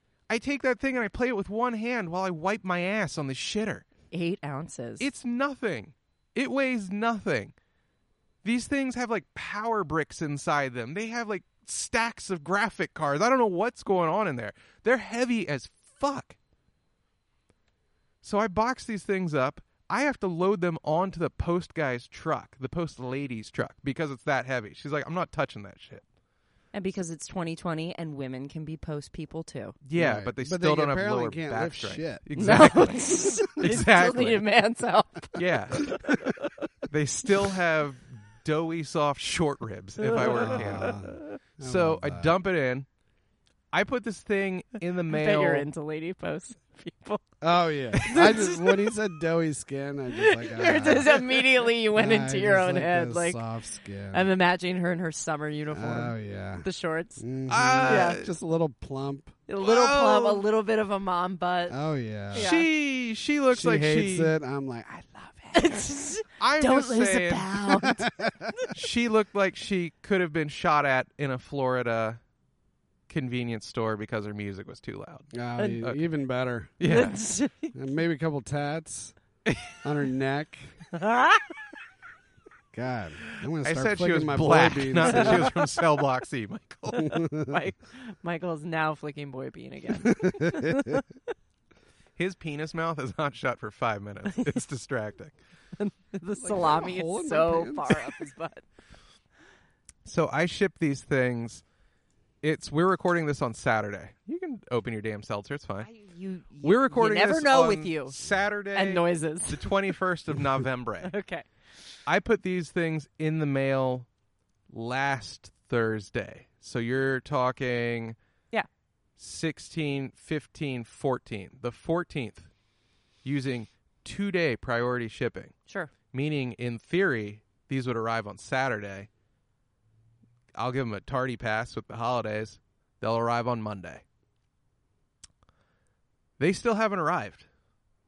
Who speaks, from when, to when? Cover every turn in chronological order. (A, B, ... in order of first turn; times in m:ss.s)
0:00.3-0:03.9 A
0:04.1-0:05.1 B
0:05.0-0:07.5 A
0:08.4-0:16.4 A
0:18.2-0:26.0 A
0:26.7-0:29.8 B
0:29.8-0:34.4 A
0:30.0-0:32.6 C
0:32.4-0:36.5 B
0:35.4-0:36.1 A
0:36.9-0:41.0 A
0:40.0-0:41.3 B
0:40.2-0:42.3 C
0:41.6-0:42.9 A
0:43.7-0:45.7 A
0:45.1-0:47.2 B
0:47.4-0:51.4 C
0:48.0-0:49.0 B
0:50.1-0:53.4 B
0:52.0-0:54.3 C
0:54.1-0:57.2 B
0:55.7-0:56.7 C
0:57.2-0:59.4 C
0:57.5-0:58.3 A
0:57.9-0:58.2 B
0:59.5-1:01.8 B
0:59.6-1:00.4 A
1:01.7-1:02.5 C
1:02.3-1:02.7 B
1:02.3-1:04.3 A
1:03.5-1:05.6 C
1:05.5-1:08.7 B
1:06.4-1:07.8 A
1:07.8-1:08.7 C
1:08.7-1:12.2 A
1:13.1-1:15.3 A
1:15.3-1:16.7 C
1:16.8-1:17.2 A
1:16.8-1:17.7 B
1:17.7-1:19.2 C
1:19.5-1:19.8 A
1:19.8-1:20.8 C
1:20.9-1:21.5 B
1:22.7-1:25.6 C
1:23.6-1:27.2 A
1:25.1-1:25.6 B
1:27.0-1:27.6 C
1:27.0-1:31.1 B
1:30.0-1:31.0 C
1:32.2-1:35.4 A
1:35.8-1:38.6 B
1:36.4-1:38.1 C
1:40.0-1:41.6 A
1:42.4-1:45.9 A
1:45.8-1:48.2 B
1:46.6-1:51.1 A
1:48.7-1:49.8 B
1:51.0-1:51.5 B
1:52.1-1:54.1 A
1:54.7-1:58.2 A
1:59.2-2:02.5 A
2:03.2-2:05.5 A
2:06.1-2:09.1 A
2:10.5-2:14.0 A
2:16.4-2:17.5 A